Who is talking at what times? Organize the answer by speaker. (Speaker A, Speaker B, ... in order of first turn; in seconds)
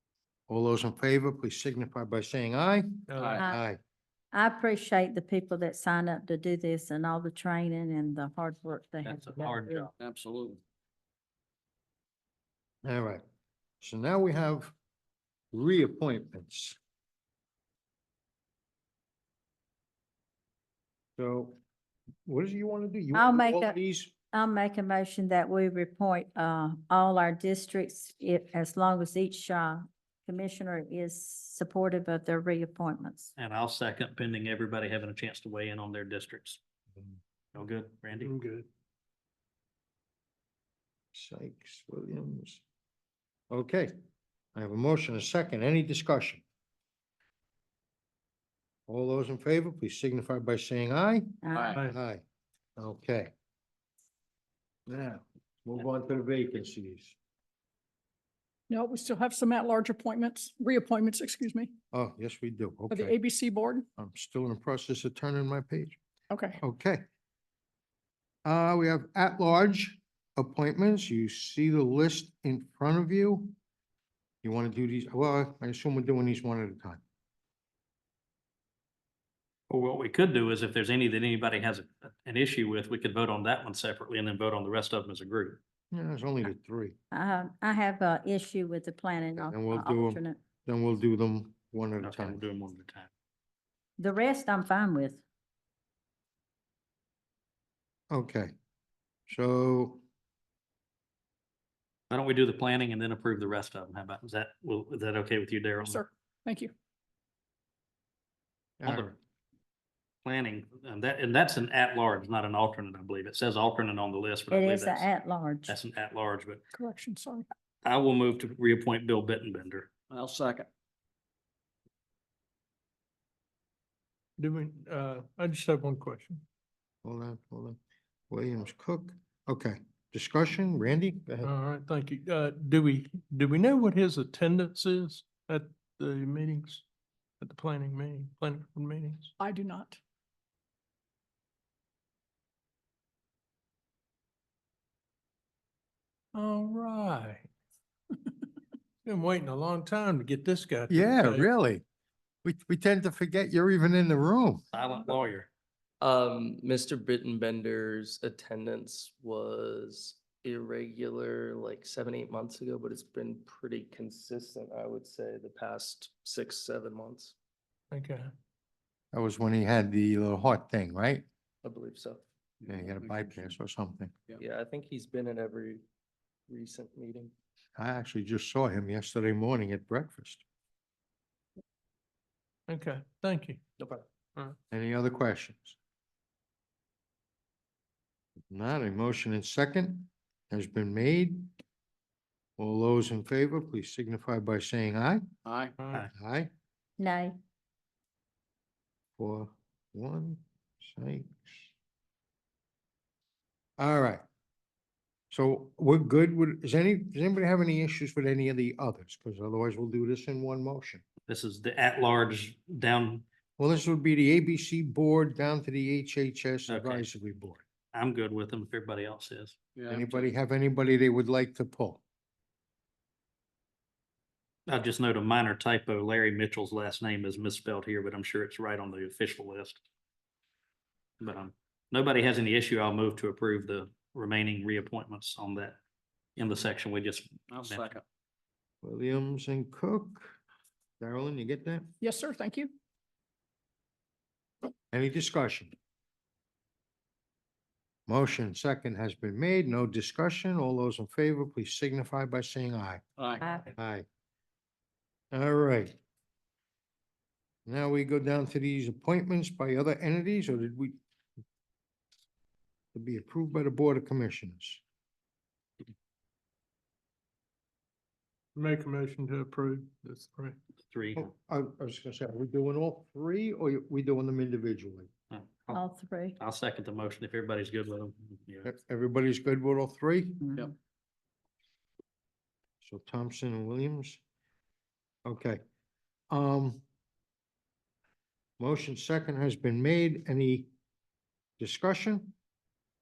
Speaker A: 0.5-3.8, 12.8-13.2, 13.8-14.7, 15.5-16.8, 21.2-21.6, 22.2-24.1, 41.1-42.6, 43.5-43.9, 44.5-46.4, 48.9-52.2, 52.8-53.3, 54.9-57.1, 61.9-63.1, 64.0-66.0, 66.6-67.0, 68.4-73.5, 74.4-77.0, 85.9-87.0, 89.5-92.4, 98.1-98.5, 99.3-100.0, 108.8-109.2, 127.0-127.8, 128.3-131.5, 150.9-151.8, 152.4-154.6, 169.1-171.2, 172.7-174.1, 177.8-180.4, 184.7-185.8, 188.5-191.5, 192.6-195.2, 196.1-196.5, 199.2-201.7, 203.8-204.2, 205.3-211.0, 213.6-217.6, 219.9-222.0, 238.8-240.4, 241.0-241.9, 244.9-245.7, 248.1-253.0, 253.7-254.1, 255.3-256.0, 257.6-261.0, 262.9-264.8, 271.1-275.1, 278.6-280.6, 282.8-284.2, 285.2-285.6, 286.3-286.8, 288.6-290.7, 291.6-292.4
Speaker B: 3.1-3.4, 38.1-38.7, 124.4-126.4, 131.4-136.8, 137.4-139.3, 146.3-147.5, 149.0-151.5, 167.9-168.3, 182.7-183.6, 195.8-196.1, 268.6-270.6
Speaker C: 3.2-3.4, 10.0-10.6, 51.5-51.8, 120.1-120.7, 172.6-173.5, 195.4-195.7, 219.8-220.3, 237.5-238.0, 253.2-253.4
Speaker D: 4.3-9.9, 23.1-23.8, 24.3-33.3, 51.4-51.8, 87.1-90.4, 94.0-95.2, 114.5-115.8, 197.0-197.4, 275.7-276.4
Speaker E: 9.0-9.9, 33.4-36.6, 37.5-38.3, 79.7-85.6, 92.0-93.1, 102.1-106.0, 108.8-109.1, 110.2-115.1, 115.7-116.6, 117.8-119.9, 154.7-155.5, 211.3-213.2, 216.7-217.1, 217.9-219.6, 224.7-229.8, 231.2-235.8, 236.4-238.0, 270.9-271.2, 275.3-275.8, 276.4-278.7
Speaker F: 58.7-61.7, 62.9-63.9, 66.3-66.6, 105.8-106.7, 116.7-117.5, 139.4-140.0, 242.0-242.7
Speaker G: 156.0-167.3, 171.6-172.2, 174.3-175.8, 176.5-177.3, 183.8-184.0